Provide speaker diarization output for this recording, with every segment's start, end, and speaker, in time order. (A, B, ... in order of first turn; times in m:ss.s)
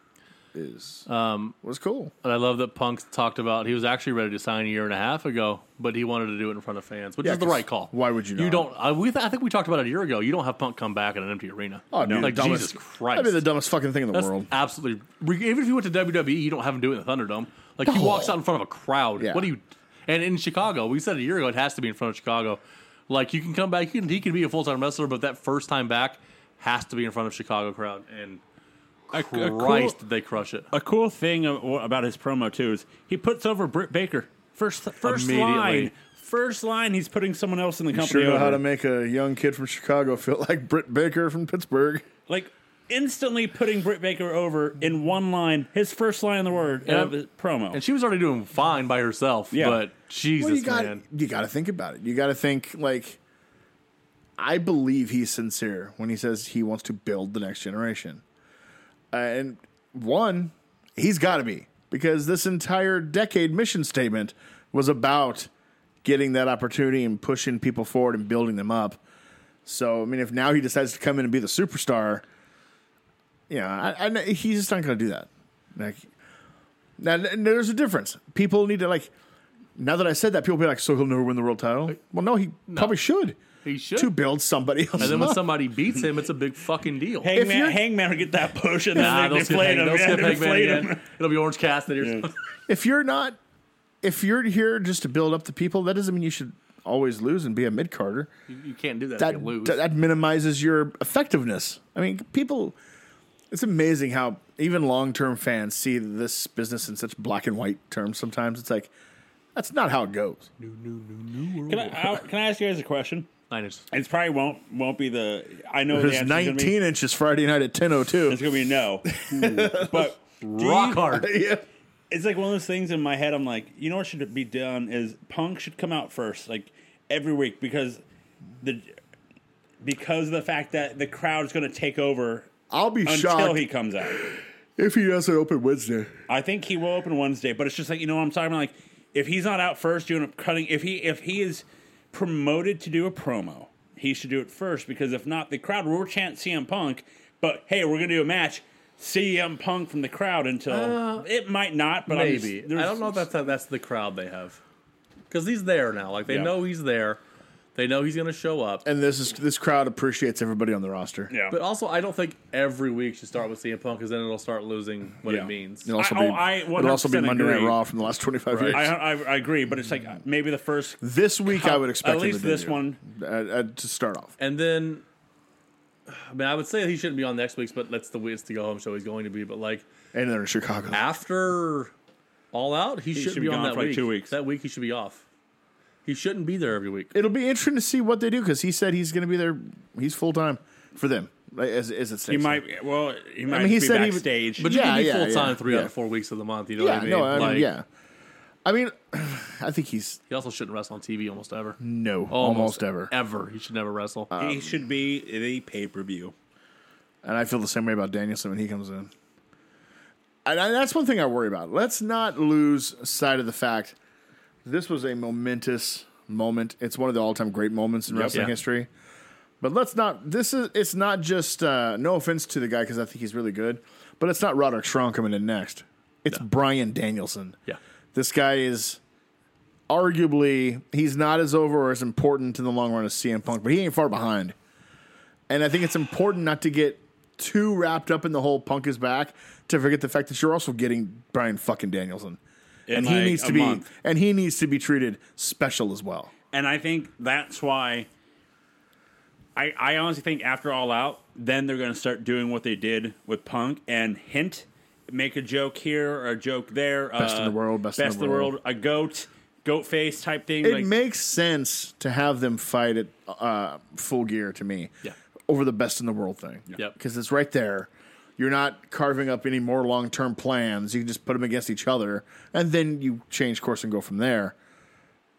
0:00.5-0:01.1 A
0:01.1-0:01.5 B
0:01.6-0:02.1 A
0:02.2-0:13.4 B
0:07.2-0:08.7 A
0:11.9-0:14.5 A
0:12.0-0:12.4 C
0:14.1-0:28.4 B
0:17.8-0:18.3 A
0:19.2-0:19.5 A
0:29.1-0:30.7 B
0:29.1-0:30.0 C
0:30.7-0:38.6 C
0:35.0-0:35.9 B
0:37.9-0:42.0 A
0:42.3-0:47.8 C
0:46.8-0:47.1 B
0:47.7-0:51.0 B
0:49.5-0:49.8 C
0:50.4-0:53.2 A
0:54.4-0:58.2 A
0:59.1-1:05.5 A
1:06.0-1:09.0 A
1:09.6-1:12.2 A
1:13.5-1:16.1 A
1:17.0-1:19.1 A
1:19.8-1:23.4 A
1:22.7-1:23.0 B
1:23.6-1:24.1 B
1:24.0-1:25.4 A
1:25.0-1:27.3 B
1:27.2-1:31.0 C
1:27.3-1:27.8 A
1:28.9-1:32.3 B
1:32.7-1:33.4 A
1:34.0-1:38.3 A
1:38.5-1:39.8 B
1:39.2-1:42.8 A
1:43.5-1:48.9 A
1:49.5-1:50.5 A
1:50.6-1:52.2 B
1:51.7-1:53.3 C
1:53.5-1:53.8 B
1:53.9-1:56.7 C
1:55.9-1:58.4 A
1:58.3-2:01.2 C
1:59.1-2:00.1 A
2:00.4-2:01.3 B
2:01.1-2:01.6 A
2:02.1-2:08.0 C
2:08.6-2:08.9 C
2:09.8-2:12.5 C
2:12.7-2:16.1 A
2:13.0-2:14.2 C
2:16.3-2:33.2 C
2:30.7-2:31.2 B
2:32.1-2:34.6 B
2:35.3-2:37.2 B
2:37.7-2:38.8 B
2:38.8-2:41.3 A
2:41.3-2:41.6 C
2:41.5-2:45.9 B
2:45.2-2:47.8 C
2:45.8-2:48.9 A
2:48.5-2:48.8 B
2:48.7-2:53.0 C
2:51.0-2:54.3 A
2:54.4-2:55.0 B
2:56.1-2:59.8 B
3:00.1-3:01.0 A
3:00.9-3:01.9 B
3:02.5-3:05.2 B
3:03.1-3:04.3 C
3:06.0-3:07.1 B
3:07.1-3:12.6 A
3:12.3-3:14.7 C
3:13.5-3:15.9 A
3:14.6-3:17.7 B
3:16.8-3:17.8 A
3:18.6-3:20.2 A
3:20.3-3:21.8 B
3:21.8-3:23.1 A
3:22.3-3:24.3 B
3:24.3-3:24.8 A
3:24.4-3:26.3 C
3:27.2-3:29.1 A
3:30.4-3:34.0 A
3:34.6-3:38.9 A
3:38.1-3:38.4 C
3:39.6-3:47.6 A
3:48.1-3:49.0 A
3:49.9-3:54.5 A
3:55.5-4:02.4 A
4:02.9-4:03.9 C
4:02.9-4:06.3 A
4:06.5-4:08.1 C
4:09.6-4:20.9 C
4:17.2-4:18.5 A
4:20.6-4:24.9 A
4:25.5-4:34.5 A